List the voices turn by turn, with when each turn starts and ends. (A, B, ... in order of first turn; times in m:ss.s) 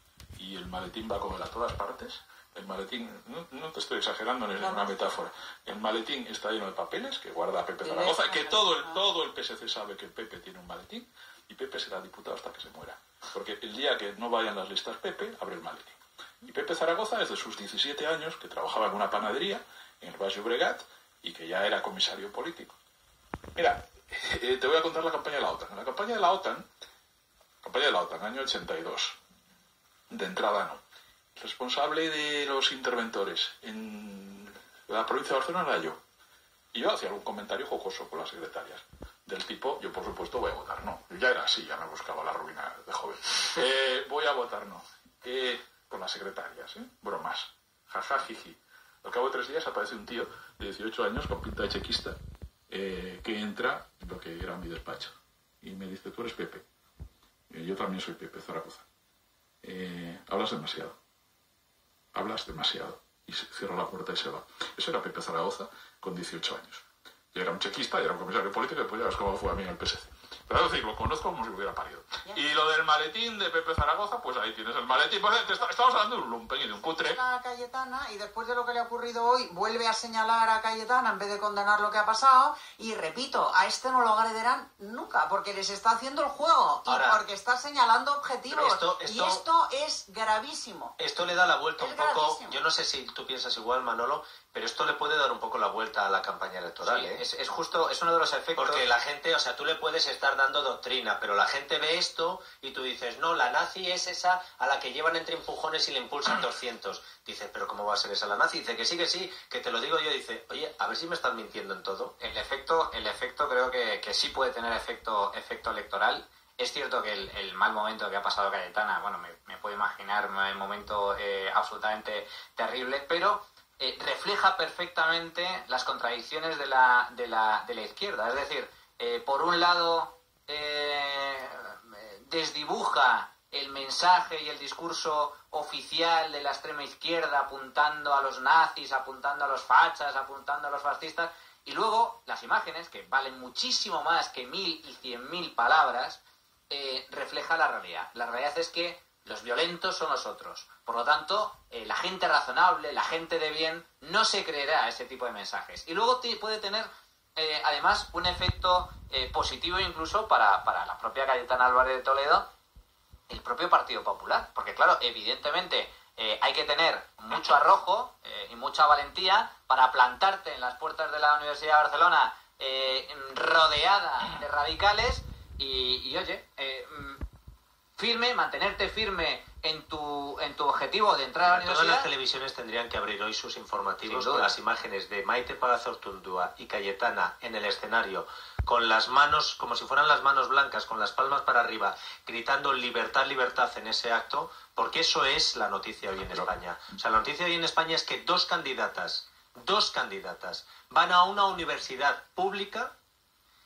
0:00.4-0:22.7 A
0:04.6-0:04.9 B
0:07.8-0:09.0 B
0:23.6-0:26.6 A
0:27.6-0:29.2 A
0:30.1-0:30.8 A
0:31.4-0:36.0 A
0:36.7-0:52.2 A
0:52.7-0:56.6 A
0:57.5-0:58.8 A
0:59.6-1:01.0 A
1:02.1-1:17.2 A
1:17.0-1:30.9 B
1:26.9-1:27.2 C
1:28.5-1:29.4 C
1:31.0-1:37.2 C
1:31.8-1:32.6 B
1:36.8-1:38.9 D
1:38.6-1:52.1 C
1:52.2-2:42.4 D
2:43.3-2:57.2 D
2:58.0-3:02.1 D
3:01.4-3:22.9 C
3:04.0-3:04.5 D